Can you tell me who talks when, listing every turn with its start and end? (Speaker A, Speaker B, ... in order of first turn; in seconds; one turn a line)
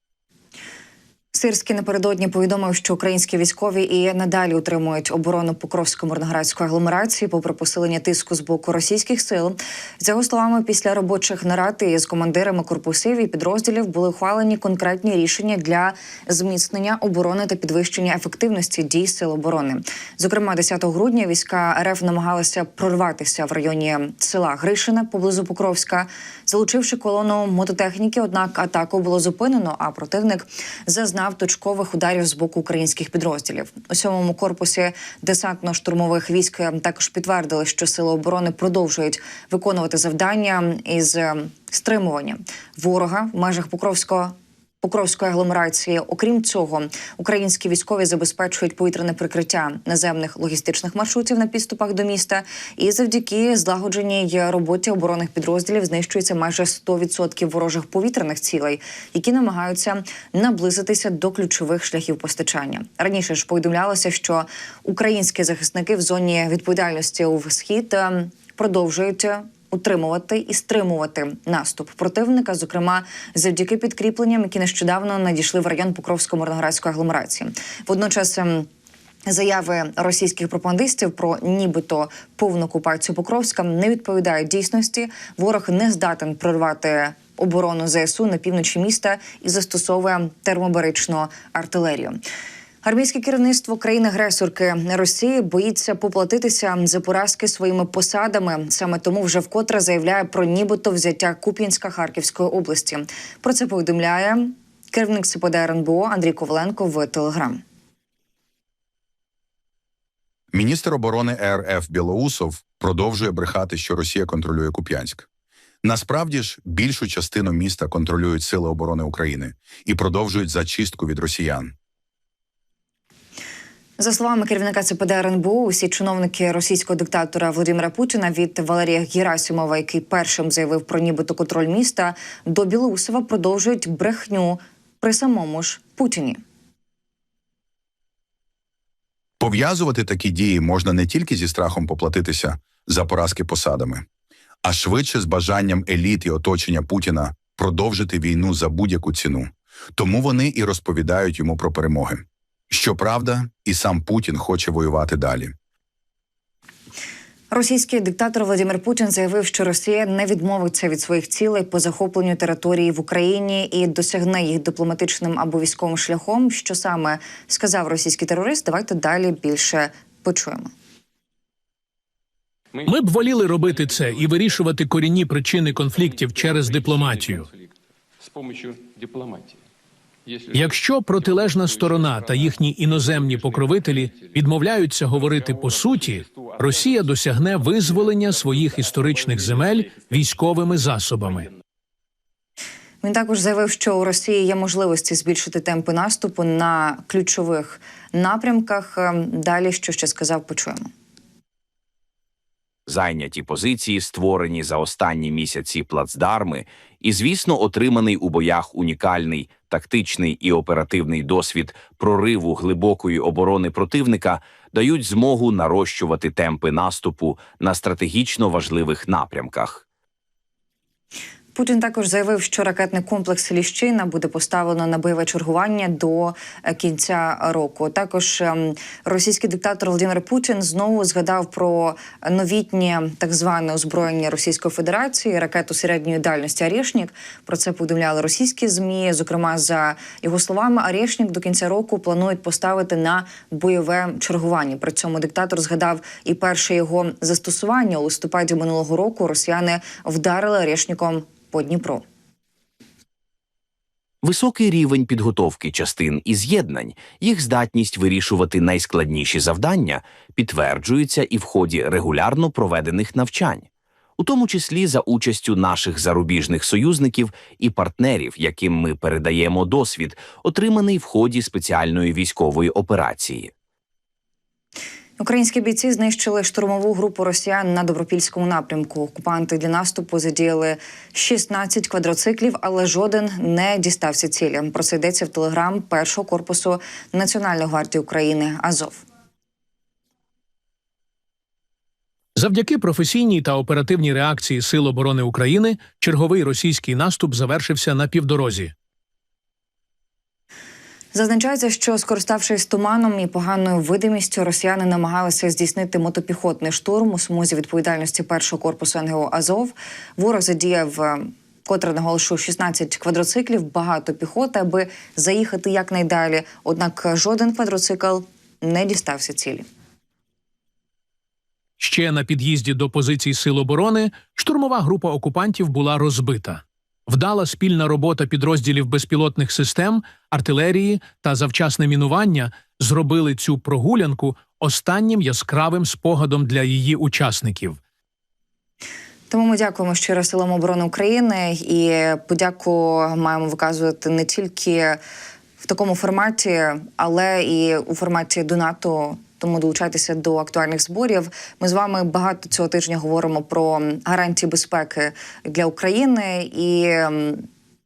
Speaker A: 1.3-78.7
Speaker A: 79.3-92.2
Speaker A: 92.8-107.6
Speaker B: 110.5-115.3
Speaker B: 115.8-121.7
Speaker A: 124.0-136.4
Speaker B: 139.4-144.0
Speaker B: 144.7-155.5
Speaker A: 157.5-170.7
Speaker C: 172.7-174.7
Speaker D: 172.8-177.5
Speaker C: 175.8-179.6
Speaker C: 180.2-190.4
Speaker D: 180.5-191.5
Speaker A: 193.0-200.9
Speaker E: 202.9-219.8
Speaker A: 221.6-252.0
Speaker E: 254.2-263.7
Speaker E: 264.2-273.5
Speaker A: 275.2-289.0
Speaker D: 292.4-298.7
Speaker A: 301.1-319.6
Speaker D: 321.8-337.8
Speaker A: 339.3-345.0
Speaker A: 345.6-357.5